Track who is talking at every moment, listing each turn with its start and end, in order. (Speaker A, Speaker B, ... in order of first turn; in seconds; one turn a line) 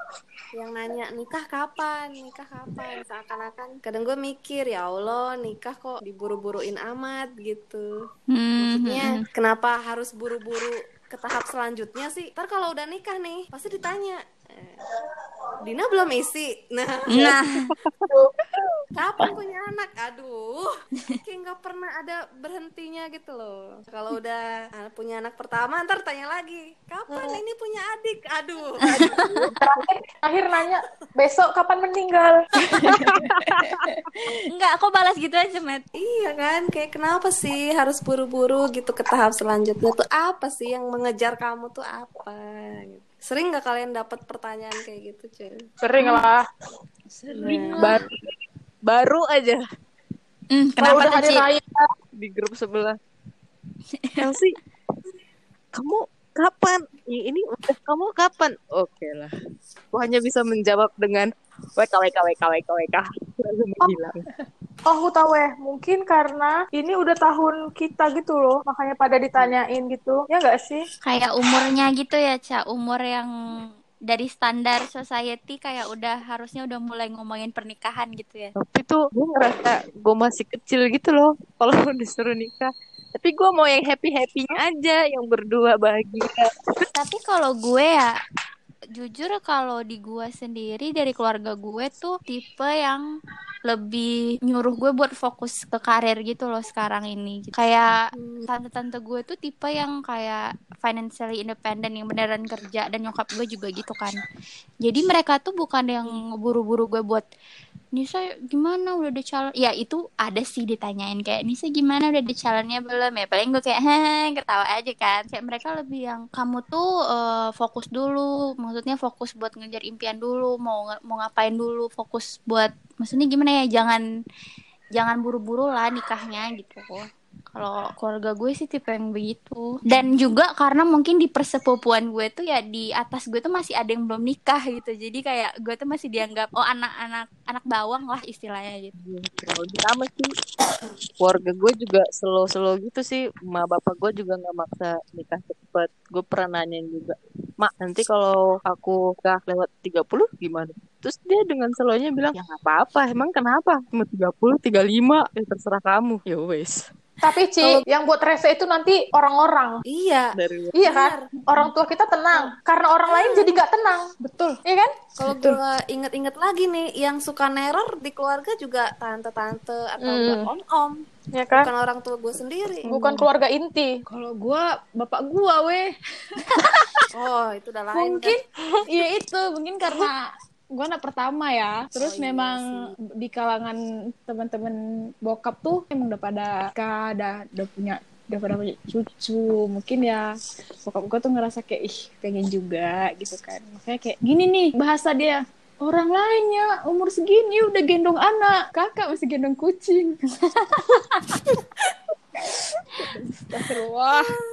Speaker A: 0.5-7.9
Speaker B: 8.3-9.2
Speaker A: 8.6-14.9
Speaker A: 15.6-17.4
Speaker B: 17.1-17.7
Speaker A: 18.9-29.5
Speaker B: 28.9-29.4
Speaker C: 29.6-32.4
Speaker B: 32.7-33.0
Speaker D: 32.9-33.8
Speaker B: 34.5-35.9
Speaker A: 36.0-45.6
Speaker C: 45.8-46.4
Speaker A: 47.3-48.0
Speaker E: 47.4-47.8
Speaker D: 47.7-49.6
Speaker B: 50.5-51.5
Speaker C: 50.8-51.9
Speaker D: 52.2-53.0
Speaker D: 54.2-54.6
Speaker D: 55.7-59.3
Speaker D: 59.9-64.2
Speaker C: 64.9-70.8
Speaker B: 71.0-73.3
Speaker B: 74.1-78.5
Speaker D: 78.6-86.5
Speaker B: 87.0-88.1
Speaker B: 88.9-93.0
Speaker B: 93.7-104.2
Speaker A: 98.1-98.5
Speaker B: 104.8-107.2
Speaker B: 108.0-124.0
Speaker B: 125.0-138.9
Speaker D: 139.0-140.3
Speaker D: 141.2-156.8
Speaker C: 157.2-159.8
Speaker A: 159.9-161.3
Speaker D: 160.4-160.7
Speaker C: 160.8-164.1
Speaker E: 161.4-161.7
Speaker A: 163.1-163.5
Speaker E: 164.2-164.6
Speaker C: 164.7-164.9
Speaker A: 165.2-172.9
Speaker E: 165.2-165.6
Speaker C: 170.0-170.5
Speaker C: 171.3-171.7
Speaker C: 172.8-173.9
Speaker E: 174.1-175.9
Speaker B: 176.5-177.1
Speaker A: 177.1-178.4
Speaker E: 177.9-180.2
Speaker E: 180.8-190.3
Speaker A: 182.0-182.9
Speaker E: 190.8-200.2
Speaker E: 203.0-204.4